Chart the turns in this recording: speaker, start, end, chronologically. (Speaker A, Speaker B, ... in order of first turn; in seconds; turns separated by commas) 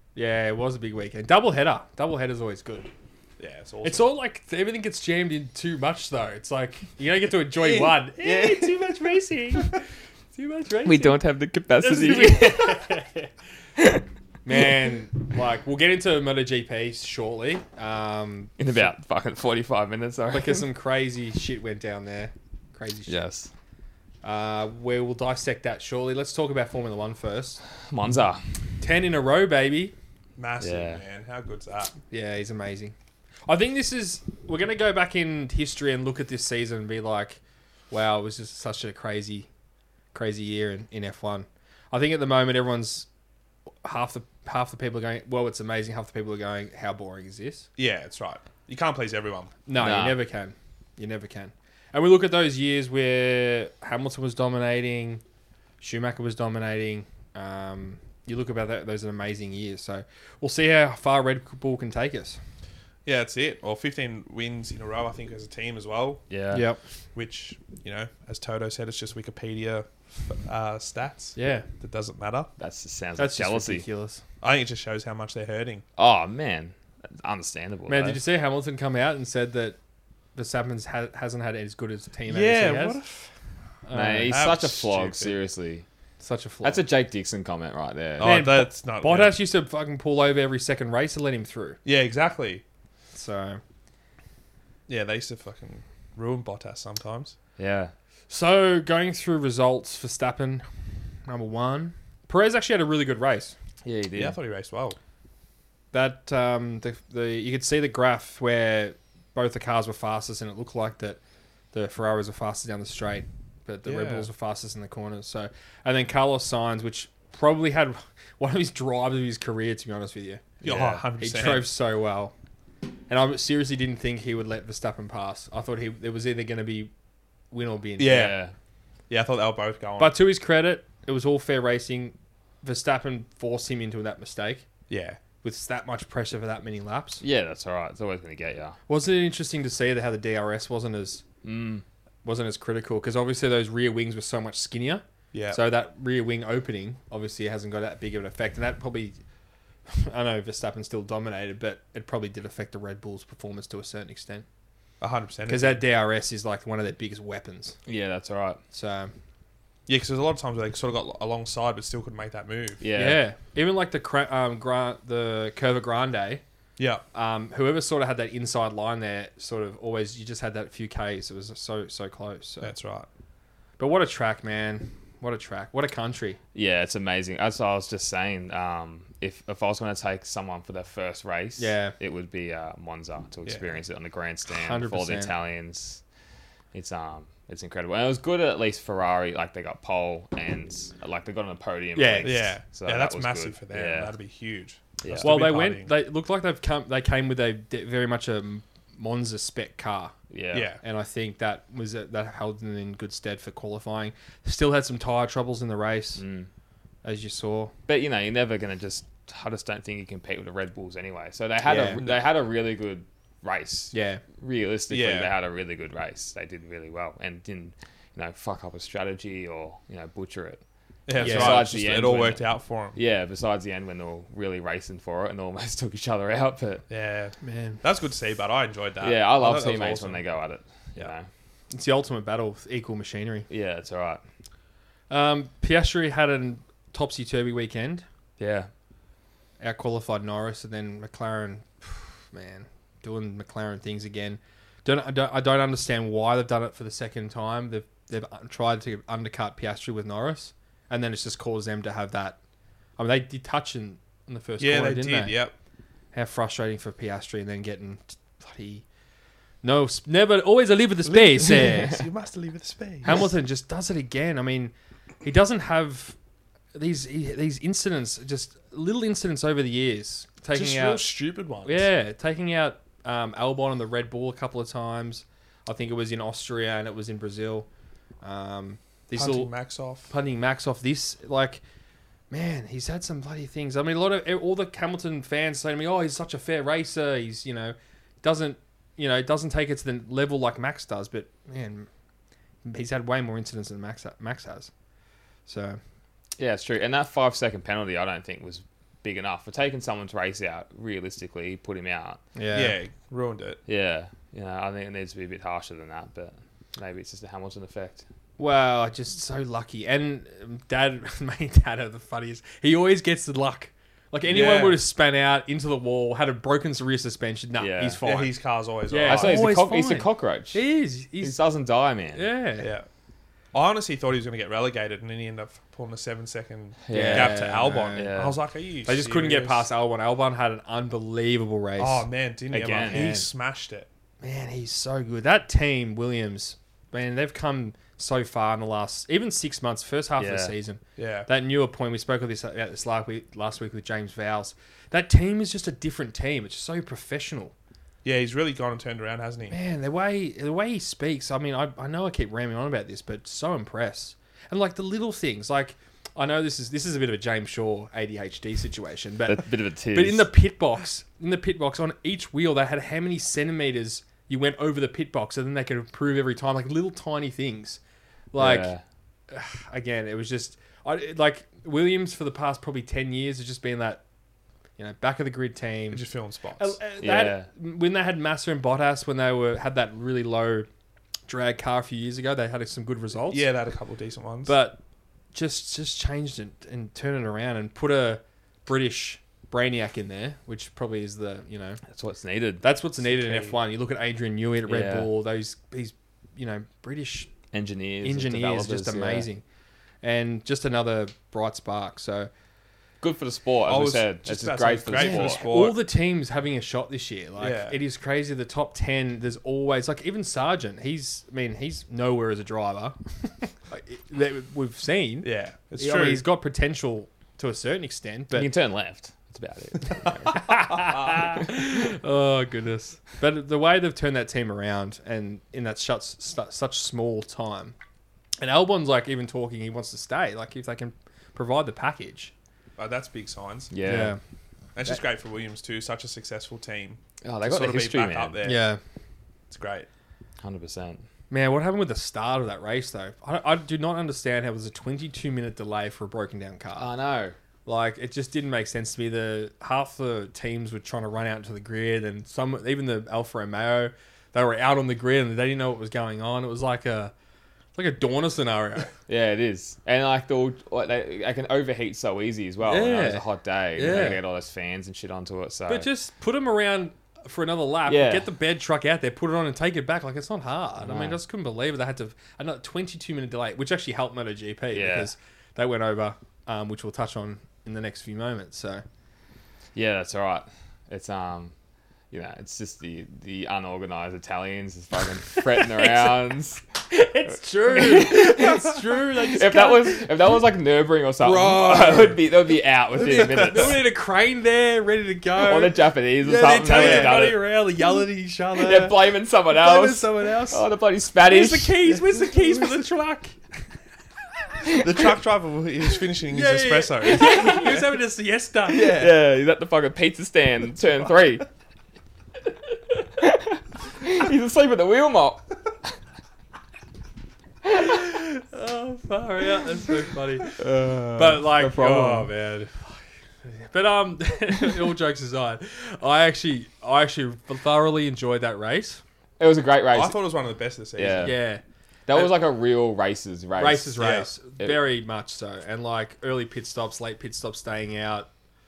Speaker A: 0.1-2.9, Speaker B: 3.4-4.0, Speaker A: 3.8-9.8, Speaker B: 7.6-8.8, Speaker A: 10.3-11.2, Speaker C: 10.8-12.9, Speaker A: 11.8-13.3, Speaker C: 13.8-14.0, Speaker A: 14.4-18.5, Speaker C: 18.6-20.7, Speaker A: 20.3-23.1, Speaker C: 23.1-23.5, Speaker A: 24.2-27.6, Speaker C: 27.9-28.5, Speaker A: 28.8-29.9, Speaker B: 30.4-32.0, Speaker C: 30.6-31.0, Speaker A: 32.1-32.9, Speaker A: 33.5-37.4, Speaker A: 37.9-39.5, Speaker A: 40.1-43.1, Speaker A: 43.8-47.7, Speaker B: 47.8-49.5, Speaker A: 49.7-55.2, Speaker C: 49.8-50.2, Speaker A: 55.8-62.4, Speaker B: 63.1-66.3, Speaker C: 66.3-66.7, Speaker A: 66.5-66.8, Speaker B: 67.1-72.5, Speaker A: 71.4-71.7, Speaker C: 72.6-73.9, Speaker A: 73.2-74.2, Speaker B: 74.4-75.8, Speaker C: 76.0-78.2, Speaker A: 77.9-79.8, Speaker A: 80.3-83.0, Speaker B: 82.3-83.3, Speaker A: 83.9-84.4, Speaker C: 83.9-85.8, Speaker B: 84.2-85.3, Speaker A: 86.2-86.8, Speaker C: 86.6-88.5, Speaker B: 88.2-89.4, Speaker A: 88.2-91.8, Speaker B: 91.8-92.6, Speaker A: 93.1-93.6, Speaker B: 94.9-97.3, Speaker C: 97.6-97.9, Speaker A: 98.3-100.7, Speaker A: 101.2-103.6, Speaker C: 103.8-104.4, Speaker B: 104.1-105.0, Speaker A: 105.9-111.2, Speaker A: 111.7-120.6, Speaker B: 113.8-114.3, Speaker C: 120.6-121.0, Speaker B: 120.6-121.7, Speaker A: 121.2-122.3, Speaker A: 123.1-126.9, Speaker A: 127.5-128.4, Speaker B: 128.0-128.4, Speaker C: 128.0-128.5, Speaker B: 129.1-130.2, Speaker A: 130.0-134.7, Speaker B: 134.9-135.2, Speaker A: 135.4-137.2, Speaker C: 137.2-138.8, Speaker A: 138.9-141.2, Speaker C: 141.4-141.8, Speaker A: 142.2-149.2, Speaker B: 145.3-145.6, Speaker A: 149.9-154.4, Speaker B: 155.0-155.8, Speaker A: 155.5-157.8, Speaker C: 157.9-158.6, Speaker A: 158.7-159.1, Speaker B: 159.9-162.8, Speaker C: 162.8-163.2, Speaker A: 162.9-166.4, Speaker B: 166.8-167.0, Speaker A: 167.1-172.7, Speaker B: 172.6-173.1, Speaker A: 173.8-176.4, Speaker C: 176.5-186.0, Speaker A: 181.6-181.9, Speaker B: 183.5-183.7, Speaker A: 184.5-185.3, Speaker C: 186.7-194.2, Speaker A: 192.0-192.6, Speaker B: 192.2-195.9, Speaker C: 195.0-195.4, Speaker A: 195.2-200.2, Speaker C: 200.3-200.7, Speaker B: 200.5-200.8, Speaker A: 200.8-206.2, Speaker C: 206.2-206.5, Speaker A: 207.0-207.7, Speaker C: 207.9-220.6, Speaker A: 211.7-212.0, Speaker A: 213.9-214.2, Speaker B: 214.9-215.3, Speaker B: 221.1-223.0, Speaker C: 221.2-226.8, Speaker A: 221.2-221.7, Speaker B: 226.9-230.2, Speaker A: 227.4-227.8, Speaker C: 229.0-231.3, Speaker A: 231.7-233.5, Speaker C: 233.5-234.2, Speaker A: 235.1-238.1, Speaker C: 238.4-238.7, Speaker A: 239.6-252.4, Speaker A: 253.0-255.4, Speaker B: 254.6-255.5, Speaker A: 256.1-258.9, Speaker A: 259.6-262.0, Speaker B: 261.1-263.3, Speaker A: 263.0-266.2, Speaker A: 266.7-271.1, Speaker B: 270.5-271.9, Speaker A: 271.6-277.7, Speaker A: 278.2-279.5, Speaker B: 279.1-280.1, Speaker A: 280.1-281.6, Speaker A: 282.3-291.9, Speaker A: 292.6-294.7, Speaker A: 295.5-295.8, Speaker C: 296.4-302.2, Speaker A: 302.4-302.8, Speaker B: 302.5-303.6, Speaker C: 303.7-308.1, Speaker A: 308.4-318.4, Speaker B: 314.3-314.8, Speaker C: 317.6-318.0, Speaker B: 318.0-319.5, Speaker A: 318.9-321.4, Speaker C: 319.1-320.6, Speaker C: 321.2-322.3, Speaker A: 322.1-322.7, Speaker B: 322.6-322.9, Speaker B: 323.5-329.7, Speaker C: 326.9-328.4, Speaker A: 326.9-328.1, Speaker A: 328.9-333.3, Speaker B: 331.8-333.9, Speaker C: 332.5-333.1, Speaker A: 334.2-347.5, Speaker C: 340.2-340.5, Speaker B: 341.0-341.3, Speaker B: 348.0-349.6, Speaker A: 349.5-367.8, Speaker C: 359.3-360.3, Speaker A: 368.3-368.7, Speaker C: 368.4-368.8, Speaker A: 369.3-374.0, Speaker A: 374.8-376.0, Speaker B: 375.9-376.8, Speaker A: 376.6-380.7, Speaker C: 377.0-377.5, Speaker A: 381.3-383.5, Speaker B: 383.3-384.6, Speaker A: 384.5-384.8, Speaker A: 385.3-391.8, Speaker C: 391.9-392.6, Speaker A: 392.6-397.3, Speaker B: 393.0-393.6, Speaker C: 394.7-395.1, Speaker C: 397.5-399.3, Speaker A: 398.0-399.4, Speaker A: 400.0-402.3, Speaker C: 403.0-405.5, Speaker B: 403.7-405.8, Speaker A: 404.9-418.5, Speaker B: 407.4-407.8, Speaker B: 415.2-416.2, Speaker C: 418.3-420.7, Speaker A: 420.3-427.8, Speaker A: 428.4-432.3, Speaker B: 432.8-433.7, Speaker C: 433.7-434.2, Speaker A: 433.8-434.2, Speaker B: 434.8-438.7, Speaker C: 437.2-438.4, Speaker A: 438.4-438.8, Speaker B: 439.5-439.9, Speaker C: 440.4-441.1, Speaker A: 441.3-446.9, Speaker C: 446.8-447.4, Speaker A: 447.7-457.1, Speaker A: 457.8-458.9, Speaker C: 459.1-465.9, Speaker A: 462.6-464.2, Speaker A: 465.7-478.8, Speaker C: 467.9-468.3, Speaker C: 470.8-471.2, Speaker C: 474.7-475.1, Speaker C: 479.8-481.5, Speaker C: 482.1-486.6, Speaker A: 485.4-486.2, Speaker A: 486.9-490.4, Speaker C: 487.7-493.8, Speaker A: 491.2-492.2, Speaker A: 493.0-500.6, Speaker B: 493.0-493.8, Speaker C: 495.4-497.4, Speaker B: 496.4-497.4, Speaker C: 498.6-502.0, Speaker A: 501.2-503.4, Speaker B: 504.6-507.9, Speaker A: 506.3-509.1, Speaker C: 507.2-507.7, Speaker C: 508.7-511.4, Speaker B: 508.7-509.1, Speaker C: 513.2-515.5, Speaker A: 517.7-520.6, Speaker C: 520.6-522.3, Speaker A: 521.2-529.0, Speaker C: 529.4-530.2, Speaker B: 529.9-531.4, Speaker C: 531.0-531.4, Speaker A: 531.2-532.4, Speaker C: 532.1-534.0, Speaker A: 533.6-538.3, Speaker B: 534.0-534.3